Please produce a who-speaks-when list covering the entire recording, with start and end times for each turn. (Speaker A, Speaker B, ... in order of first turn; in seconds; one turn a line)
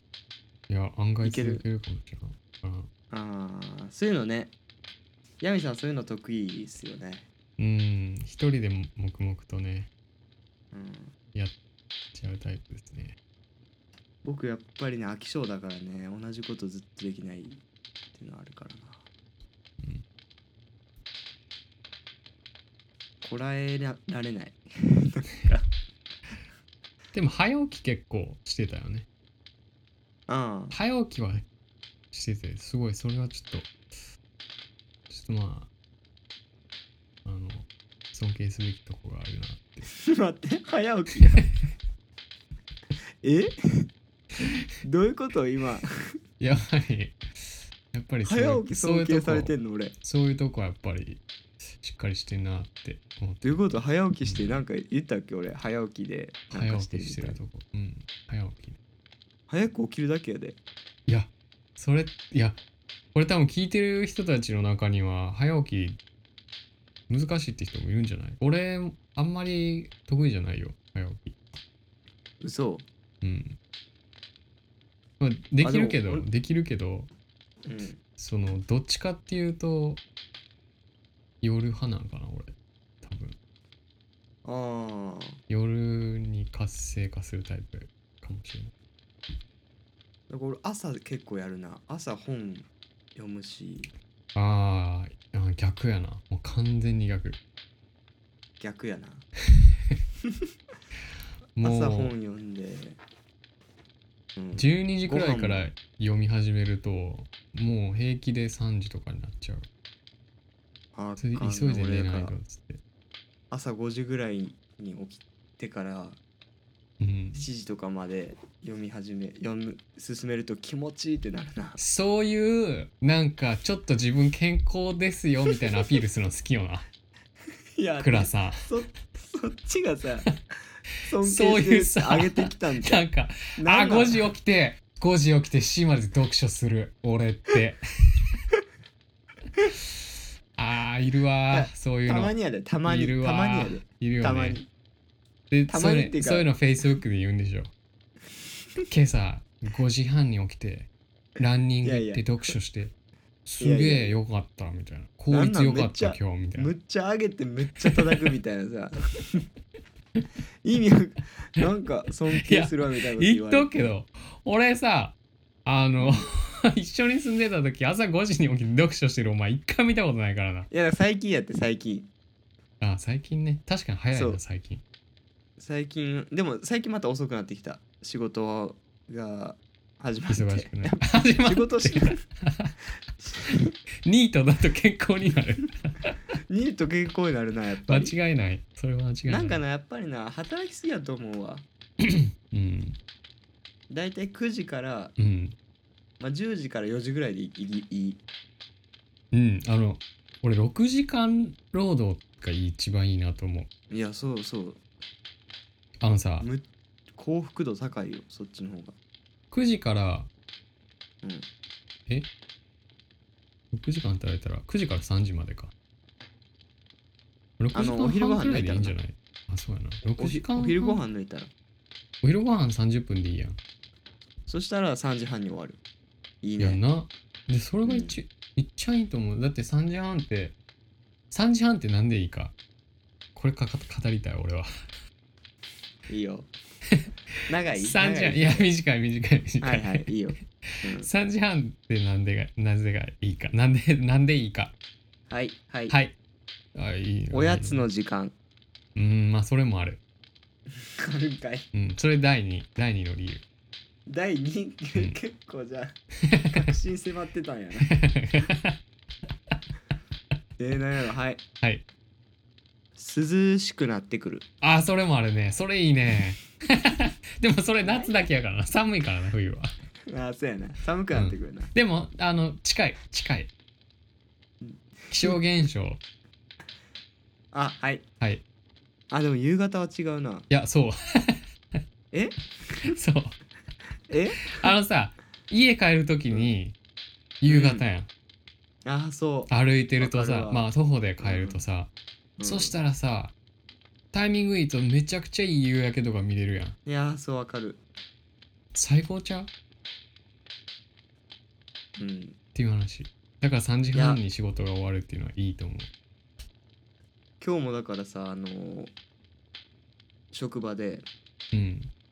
Speaker A: 0.7-2.9
Speaker B: 1.2-1.6
Speaker B: 3.1-4.5
Speaker B: 5.4-7.3
Speaker A: 7.6-9.9
Speaker B: 10.7-11.1
Speaker A: 12.1-13.2
Speaker B: 14.2-17.6
Speaker B: 18.1-19.1
Speaker B: 23.2-25.7
Speaker A: 27.1-29.1
Speaker B: 30.3-30.8
Speaker A: 30.7-31.5
Speaker A: 32.1-33.7
Speaker A: 35.1-35.7
Speaker A: 37.2-39.9
Speaker B: 39.9-41.5
Speaker B: 43.2-43.9
Speaker B: 44.8-45.9
Speaker A: 46.4-47.2
Speaker A: 47.9-51.2
Speaker B: 48.2-50.0
Speaker A: 51.8-53.6
Speaker B: 53.4-57.4
Speaker A: 54.2-54.6
Speaker A: 56.5-58.8
Speaker B: 59.5-60.6
Speaker A: 61.1-62.6
Speaker A: 63.1-66.0
Speaker A: 67.1-71.4
Speaker B: 72.4-72.9
Speaker A: 73.2-73.6
Speaker A: 75.2-77.1
Speaker B: 75.6-76.3
Speaker B: 77.7-78.0
Speaker A: 78.2-80.0
Speaker A: 81.4-83.4
Speaker B: 84.4-85.4
Speaker A: 85.5-88.7
Speaker B: 90.3-93.9
Speaker A: 94.3-97.4
Speaker B: 98.6-99.2
Speaker A: 101.6-102.2
Speaker B: 101.6-103.0
Speaker B: 104.4-105.7
Speaker A: 104.5-109.7
Speaker B: 111.0-112.3
Speaker A: 111.2-112.8
Speaker B: 113.5-116.2
Speaker A: 117.0-117.5
Speaker B: 117.3-121.8
Speaker A: 121.8-126.8
Speaker B: 127.8-130.3
Speaker A: 128.0-128.7
Speaker B: 131.0-133.1
Speaker A: 131.2-138.3
Speaker B: 133.6-134.3
Speaker A: 140.6-142.3
Speaker B: 141.5-144.7
Speaker A: 142.9-144.6
Speaker A: 145.5-147.7
Speaker B: 145.7-146.5
Speaker A: 148.9-152.9
Speaker B: 151.8-152.5
Speaker A: 153.5-156.7
Speaker B: 153.6-154.2
Speaker B: 155.3-159.5
Speaker B: 160.6-163.9
Speaker A: 162.4-170.7
Speaker B: 166.0-166.3
Speaker B: 170.7-172.1
Speaker A: 172.8-174.8
Speaker B: 174.1-174.4
Speaker B: 175.6-182.2
Speaker A: 180.3-182.8
Speaker B: 183.2-183.6
Speaker A: 183.4-186.2
Speaker B: 186.5-188.2
Speaker A: 187.9-189.6
Speaker B: 189.3-191.7
Speaker A: 192.0-193.0
Speaker B: 193.9-195.1
Speaker A: 195.2-195.6
Speaker B: 196.2-198.2
Speaker A: 199.3-203.7
Speaker B: 203.9-204.8
Speaker A: 206.0-206.5
Speaker B: 206.4-208.9
Speaker A: 209.5-210.3
Speaker B: 211.2-211.5
Speaker A: 213.7-215.7
Speaker A: 217.6-221.0
Speaker B: 217.8-218.9
Speaker B: 220.2-221.5
Speaker A: 222.2-223.6
Speaker B: 224.5-225.8
Speaker B: 226.4-226.8
Speaker A: 226.6-230.6
Speaker B: 227.9-228.2
Speaker A: 231.3-232.6
Speaker A: 233.3-234.7
Speaker B: 236.1-236.5
Speaker A: 237.0-240.1
Speaker B: 237.5-238.7
Speaker B: 239.6-241.1
Speaker A: 240.7-244.7
Speaker B: 245.3-245.9
Speaker A: 245.9-246.2
Speaker A: 246.8-247.9
Speaker B: 247.3-248.3
Speaker A: 249.0-250.0
Speaker B: 250.8-251.7
Speaker A: 251.7-253.4
Speaker B: 254.1-258.0
Speaker A: 256.3-256.6
Speaker A: 257.9-258.8
Speaker B: 260.6-261.4
Speaker B: 263.0-264.4
Speaker A: 264.6-269.7
Speaker B: 267.8-268.1
Speaker B: 270.1-271.7
Speaker A: 271.1-273.5
Speaker B: 274.6-275.4
Speaker A: 275.1-276.0
Speaker B: 277.5-278.1
Speaker B: 279.1-280.5
Speaker A: 280.5-281.4
Speaker B: 282.1-282.8
Speaker A: 282.8-283.4
Speaker B: 284.1-284.7
Speaker A: 284.4-286.8
Speaker A: 287.4-288.1
Speaker B: 287.5-287.9
Speaker B: 288.9-290.7
Speaker A: 289.5-293.3
Speaker B: 291.2-291.6
Speaker B: 292.4-292.8
Speaker A: 294.1-296.8
Speaker B: 296.9-297.8
Speaker A: 298.7-299.5
Speaker B: 302.0-302.4
Speaker A: 302.6-305.9
Speaker B: 303.9-304.2
Speaker B: 307.4-308.9
Speaker B: 310.3-311.1
Speaker A: 311.5-311.9